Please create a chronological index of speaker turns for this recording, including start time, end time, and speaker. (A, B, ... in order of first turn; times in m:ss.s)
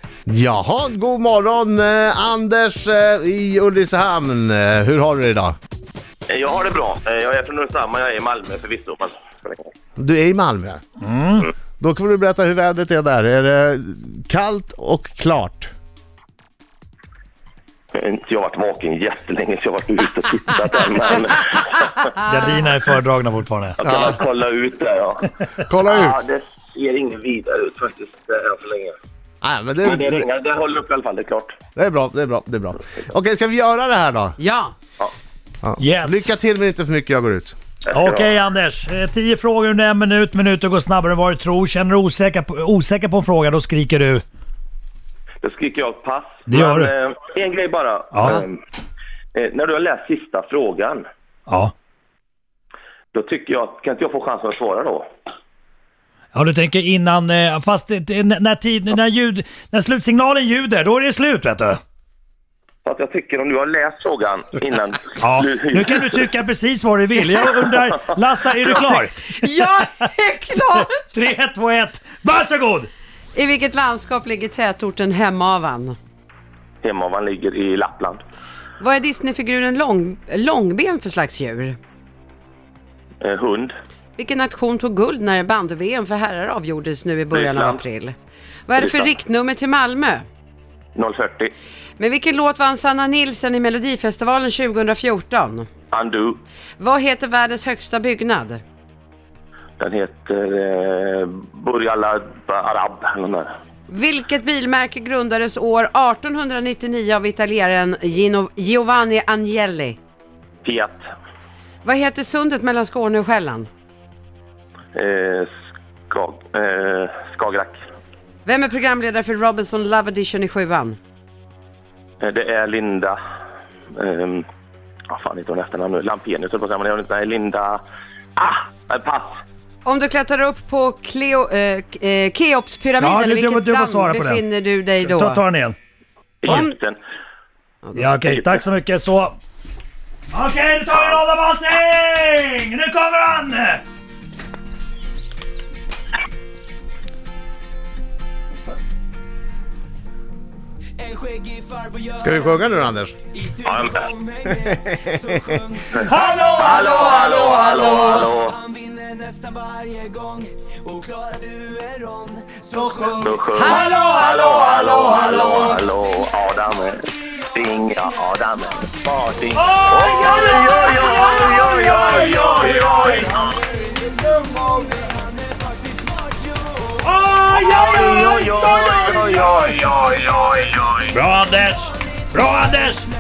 0:00.3-0:05.6 A
0:06.3-0:09.7 B
0:10.0-0:10.8 A
0:11.0-0:11.5 C
0:11.8-0:15.7 A
0:18.0-0:22.1 B
0:22.2-0:23.8 C
0:23.8-0:25.3 B
0:23.8-0:24.2 A
0:25.7-0:26.2 A
0:25.9-0:29.0 B
0:29.4-0:30.3 A
0:29.8-0:31.6 B
0:31.8-0:34.4 A
0:34.4-0:34.7 D
0:35.6-0:37.6 A
0:35.8-0:36.3 C
0:37.9-0:44.2 C
0:37.9-0:38.3 B
0:45.4-0:48.6 B
0:46.5-0:46.9 C
0:48.1-0:48.4 C
0:49.4-0:51.0 B
0:51.5-0:51.7 C
0:53.1-0:55.0 B
0:56.3-1:01.8 C
1:02.8-1:06.2 B
1:05.2-1:09.4 C
1:07.5-1:07.7 B
1:09.3-1:11.0 D
1:10.7-1:12.9 C
1:13.4-1:16.0 D
1:16.8-1:18.2 B
1:18.8-1:21.8 D
1:23.2-1:23.7 B
1:24.2-1:28.1 D
1:27.3-1:27.8 B
1:28.7-1:30.2 D
1:28.8-1:29.1 B
1:31.0-1:31.5 B
1:32.0-1:35.7 D
1:35.9-1:36.4 B
1:36.8-1:38.6 D
1:39.8-1:43.5 B
1:43.9-1:50.0 D
1:50.6-1:51.1 B
1:51.8-1:53.7 D
1:55.0-1:55.5 B
1:56.1-1:57.8 B
1:58.4-2:01.0 D
2:02.2-2:03.2 B
2:03.9-2:04.4 B
2:05.1-2:07.8 B
2:08.4-2:09.4 B
2:09.8-2:15.4 D
2:13.0-2:14.4 C
2:15.0-2:15.8 C
2:16.4-2:17.0 B
2:16.5-2:16.7 D
2:18.0-2:19.4 C
2:18.2-2:18.6 B
2:20.3-2:23.8 C
2:31.6-2:32.0 E
2:32.1-2:33.2 A
2:33.6-2:34.1 B
2:34.4-2:37.5 A
2:35.9-2:38.6 B
2:38.8-2:42.6 E
2:42.7-2:45.8 A
2:43.2-2:53.6 B
2:49.6-2:51.5 C
2:50.0-2:55.1 A
2:52.2-2:52.6 C
2:57.0-2:58.5 C
2:57.5-3:01.1 B
2:58.5-3:00.3 A
3:01.1-3:03.1 C